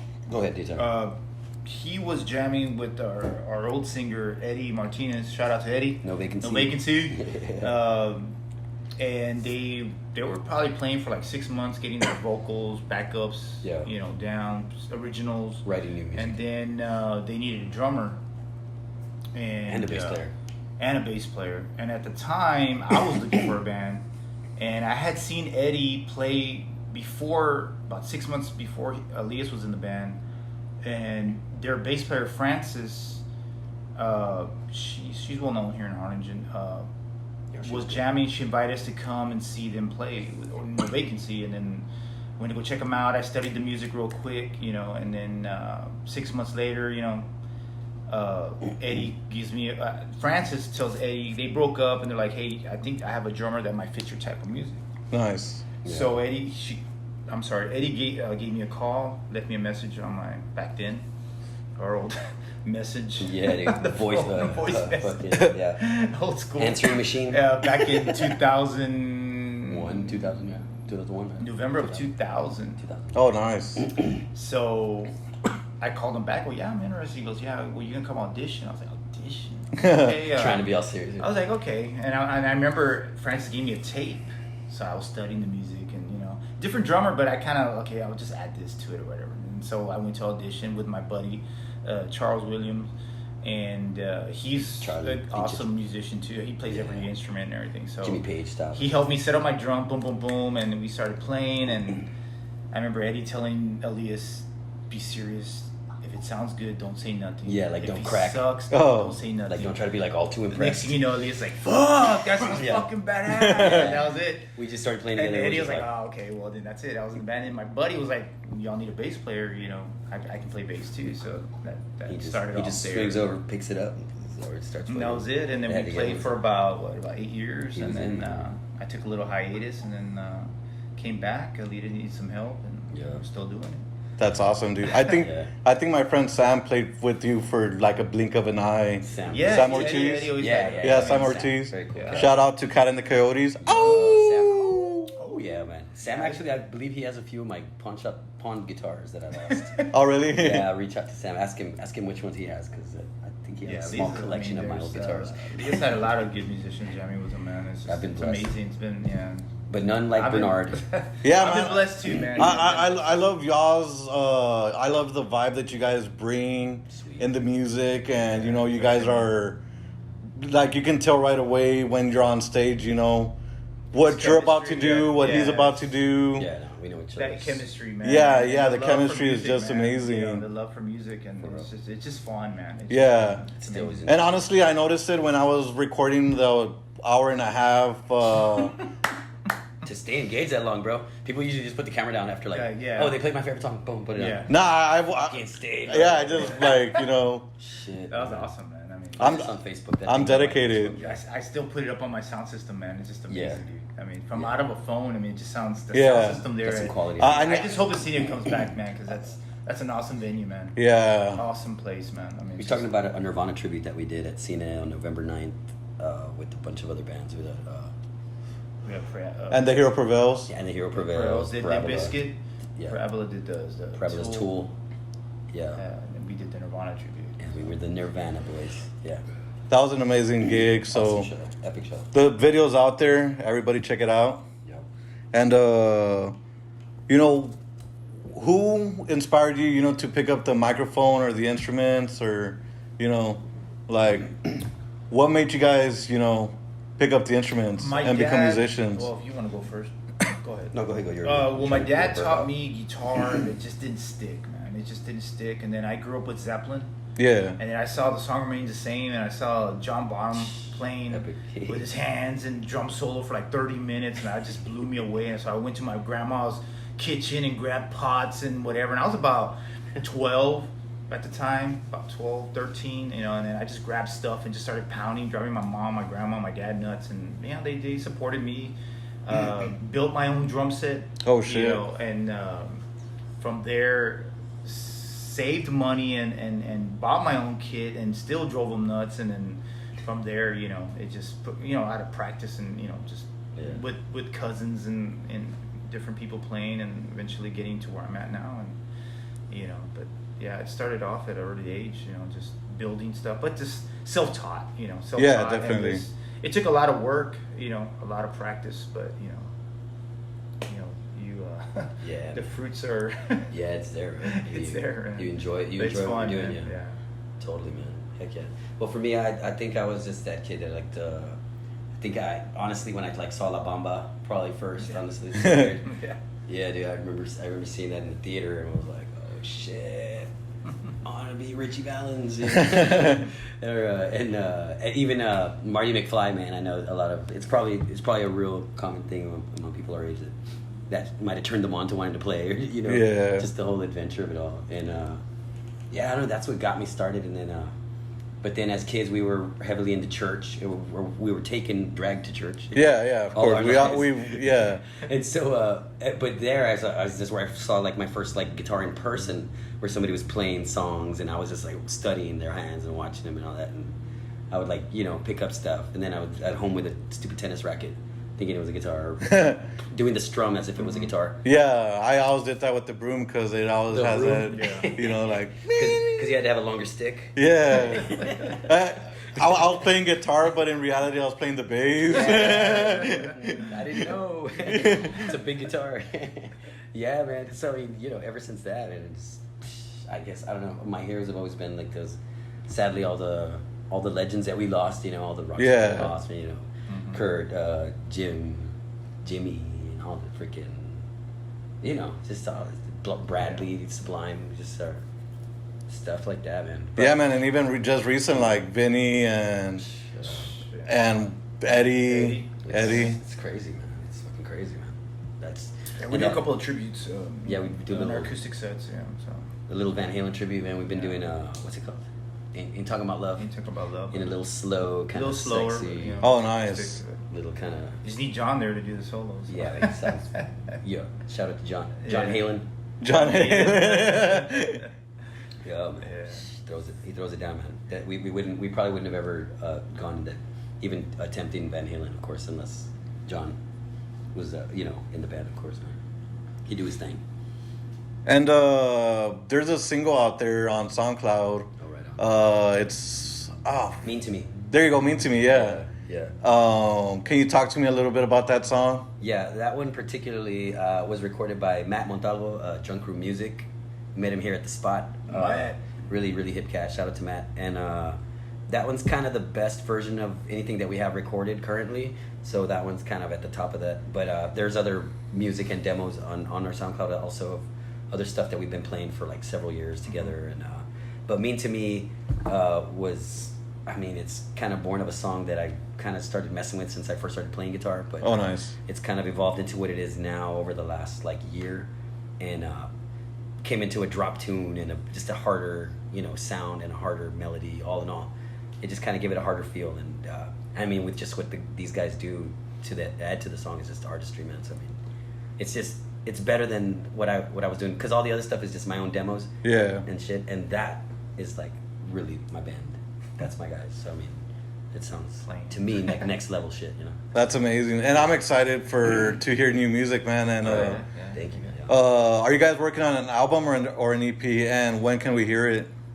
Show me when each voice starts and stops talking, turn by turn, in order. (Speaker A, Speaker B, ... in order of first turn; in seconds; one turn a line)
Speaker A: 0.3-0.9
Speaker B: 0.8-8.3
Speaker A: 6.0-7.7
Speaker B: 9.0-15.6
Speaker A: 13.6-13.9
Speaker A: 15.6-16.4
Speaker B: 16.1-18.2
Speaker B: 19.3-20.2
Speaker A: 19.7-20.3
Speaker B: 20.8-24.0
Speaker B: 24.6-30.2
Speaker B: 30.8-33.2
Speaker B: 34.0-36.9
Speaker A: 37.5-38.0
Speaker B: 37.6-41.9
Speaker B: 42.4-47.3
Speaker B: 48.1-54.8
Speaker C: 55.1-55.6
Speaker A: 55.8-56.1
Speaker B: 55.8-61.0
Speaker B: 61.8-70.2
Speaker A: 63.2-65.8
Speaker A: 66.6-68.1
Speaker A: 69.6-72.1
Speaker B: 71.4-72.8
Speaker A: 72.8-73.2
Speaker C: 73.1-73.9
Speaker A: 73.8-74.2
Speaker B: 74.3-75.1
Speaker B: 75.8-92.9
Speaker C: 79.8-80.2
Speaker A: 80.3-81.3
Speaker B: 93.4-98.2
Speaker A: 94.8-95.7
Speaker A: 96.7-97.1
Speaker A: 98.0-99.0
Speaker B: 98.7-102.1
Speaker B: 102.7-109.8
Speaker A: 107.4-108.5
Speaker C: 108.7-109.2
Speaker A: 109.5-111.0
Speaker B: 110.5-114.5
Speaker A: 112.5-112.9
Speaker C: 113.3-113.9
Speaker A: 113.5-115.9
Speaker B: 115.1-123.3
Speaker A: 122.1-126.3
Speaker B: 124.9-133.8
Speaker A: 127.8-128.5
Speaker A: 132.9-133.2
Speaker C: 134.2-145.1
Speaker A: 135.0-135.5
Speaker A: 139.0-142.3
Speaker B: 139.3-142.3
Speaker A: 143.6-155.8
Speaker B: 143.9-144.2
Speaker B: 145.2-146.4
Speaker B: 149.5-149.9
Speaker C: 149.9-150.7
Speaker B: 153.6-159.5
Speaker A: 157.9-158.5
Speaker A: 159.7-160.8
Speaker B: 160.1-163.2
Speaker C: 161.2-169.6
Speaker A: 161.6-162.5
Speaker A: 166.9-167.3
Speaker B: 168.3-169.3
Speaker C: 170.3-173.4
Speaker C: 173.9-176.5
Speaker B: 173.9-175.8
Speaker A: 176.3-177.6
Speaker B: 177.2-184.1
Speaker C: 178.0-180.4
Speaker A: 181.4-181.7
Speaker C: 182.9-183.4
Speaker A: 183.6-184.3
Speaker C: 184.1-188.8
Speaker A: 189.8-194.5
Speaker B: 192.5-193.2
Speaker B: 194.1-194.5
Speaker C: 194.5-197.5
Speaker A: 195.1-196.7
Speaker A: 197.6-198.5
Speaker B: 198.1-199.5
Speaker A: 199.2-201.2
Speaker C: 199.2-199.5
Speaker C: 200.1-200.9
Speaker B: 200.9-210.8
Speaker A: 203.3-203.6
Speaker C: 205.9-206.5
Speaker A: 206.6-207.6
Speaker C: 207.2-207.8
Speaker C: 210.8-211.4
Speaker B: 211.3-212.9
Speaker A: 212.6-217.9
Speaker B: 218.8-219.8
Speaker C: 219.5-220.5
Speaker A: 220.5-222.2
Speaker B: 221.0-224.6
Speaker A: 223.9-224.7
Speaker A: 225.5-225.8
Speaker B: 225.8-227.5
Speaker A: 227.4-229.2
Speaker C: 229.7-231.3
Speaker A: 230.9-232.1
Speaker C: 232.1-234.4
Speaker C: 235.3-236.3
Speaker C: 237.1-237.6
Speaker C: 238.2-244.4
Speaker C: 245.1-249.1
Speaker B: 247.8-256.9
Speaker A: 250.7-252.5
Speaker C: 257.2-257.6
Speaker B: 257.6-282.8
Speaker A: 261.1-261.9
Speaker C: 281.2-281.8
Speaker B: 283.4-298.8
Speaker A: 293.6-293.8
Speaker B: 299.5-309.5
Speaker C: 305.2-306.0
Speaker B: 310.6-313.5
Speaker A: 312.0-312.5
Speaker A: 313.5-316.7
Speaker B: 314.2-316.9
Speaker A: 317.4-321.4
Speaker A: 322.0-325.9
Speaker B: 325.5-326.2
Speaker A: 326.5-330.3
Speaker A: 331.0-340.3
Speaker C: 332.6-333.2
Speaker A: 340.9-345.2
Speaker C: 342.9-343.5
Speaker A: 345.9-347.7
Speaker A: 348.4-364.0
Speaker C: 352.7-354.8
Speaker A: 364.5-371.4
Speaker C: 369.3-369.6
Speaker C: 371.4-376.3
Speaker A: 373.9-379.8
Speaker B: 374.5-374.9
Speaker C: 377.4-384.1
Speaker A: 382.1-401.0
Speaker B: 382.4-383.2
Speaker C: 384.6-385.3
Speaker C: 395.6-396.1
Speaker B: 396.9-397.2
Speaker A: 401.8-405.0
Speaker A: 405.9-407.2
Speaker C: 407.0-409.9
Speaker A: 409.8-410.5
Speaker B: 410.3-410.9
Speaker C: 410.9-413.2
Speaker B: 411.7-413.1
Speaker A: 412.6-416.4
Speaker B: 416.0-419.5
Speaker A: 417.4-418.3
Speaker A: 419.7-423.5
Speaker B: 420.9-421.2
Speaker B: 423.4-424.3
Speaker A: 424.1-426.3
Speaker B: 425.1-427.2
Speaker C: 426.2-427.0
Speaker A: 427.3-428.0
Speaker B: 428.0-430.5
Speaker A: 429.5-432.7
Speaker B: 432.0-432.5
Speaker C: 433.0-434.8
Speaker B: 433.1-434.8
Speaker A: 435.6-443.6
Speaker B: 436.0-436.4
Speaker A: 444.3-446.0
Speaker A: 446.6-447.2
Speaker C: 448.2-454.0
Speaker A: 451.8-452.2
Speaker A: 454.0-454.5
Speaker C: 454.6-455.8
Speaker A: 455.5-456.4
Speaker C: 456.4-459.1
Speaker A: 459.2-468.2
Speaker B: 465.3-465.8
Speaker A: 468.7-492.9
Speaker C: 488.2-488.7
Speaker A: 493.6-505.0
Speaker A: 505.6-514.4
Speaker C: 509.6-510.1
Speaker A: 514.9-517.3
Speaker B: 515.5-516.2
Speaker C: 517.3-521.0
Speaker A: 520.6-521.9
Speaker B: 520.6-521.7
Speaker C: 521.9-525.9